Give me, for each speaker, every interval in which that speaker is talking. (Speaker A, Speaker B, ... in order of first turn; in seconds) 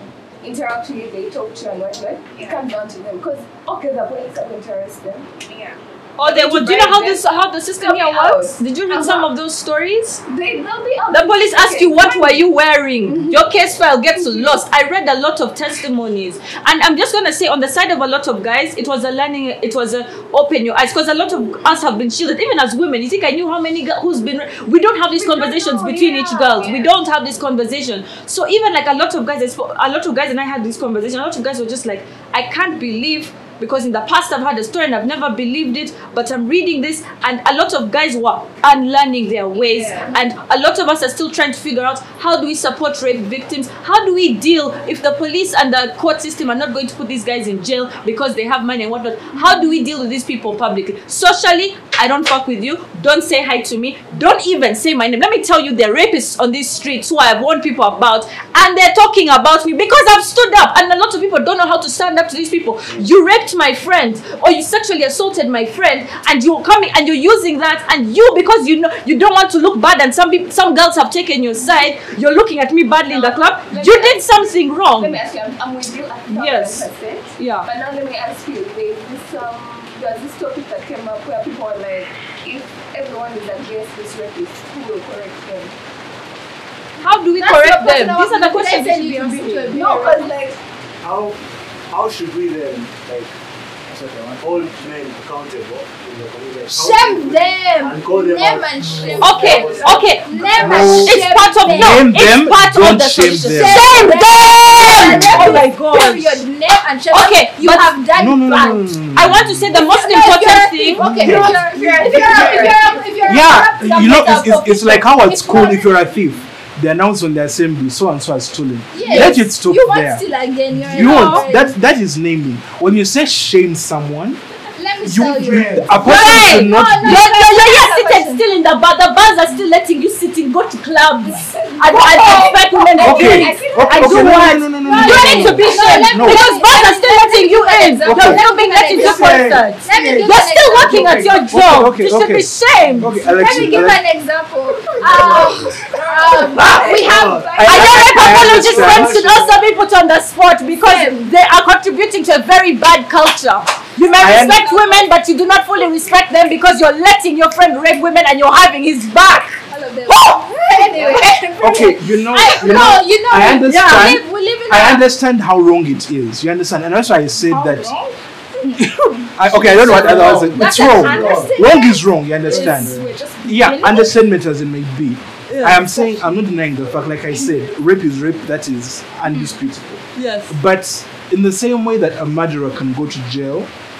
Speaker A: 0.4-9.3, 10.3-12.5, 13.0-13.6, 14.1-14.6, 25.2-26.9, 39.5-40.2, 73.1-85.8, 89.7-90.6, 99.3-101.0, 111.1-113.3, 131.6-135.8, 145.0-148.0, 161.0-161.3
Speaker B: 6.2-10.2, 11.1-75.2, 76.3-77.7, 87.0-89.8, 99.2-106.4, 107.1-108.0, 109.1-111.1, 120.9-121.5, 126.0-143.2, 146.4-147.0, 147.6-162.9, 163.6-164.2, 175.5-176.0, 180.1-180.6
Speaker C: 87.4-90.3, 96.7-102.1, 103.5-109.0, 109.7-116.1, 118.9-121.8, 124.8-128.4, 131.9-132.5, 133.4-141.4, 143.2-148.5, 150.7-151.3, 154.0-155.1, 159.7-165.0, 167.4-174.2, 179.3-179.6
Speaker D: 91.0-91.4, 91.9-93.3, 93.9-100.9, 111.8-113.0, 125.4-126.1, 138.9-141.4, 143.1-143.8, 145.0-149.6, 169.5-171.7, 172.6-173.1
Speaker E: 100.5-104.1, 104.7-105.7, 108.1-109.6, 111.0-111.7, 113.2-124.4, 125.0-127.3, 133.0-136.5, 138.0-138.4, 141.5-144.0, 147.5-149.3, 154.2-154.7, 161.6-167.9, 168.8-183.7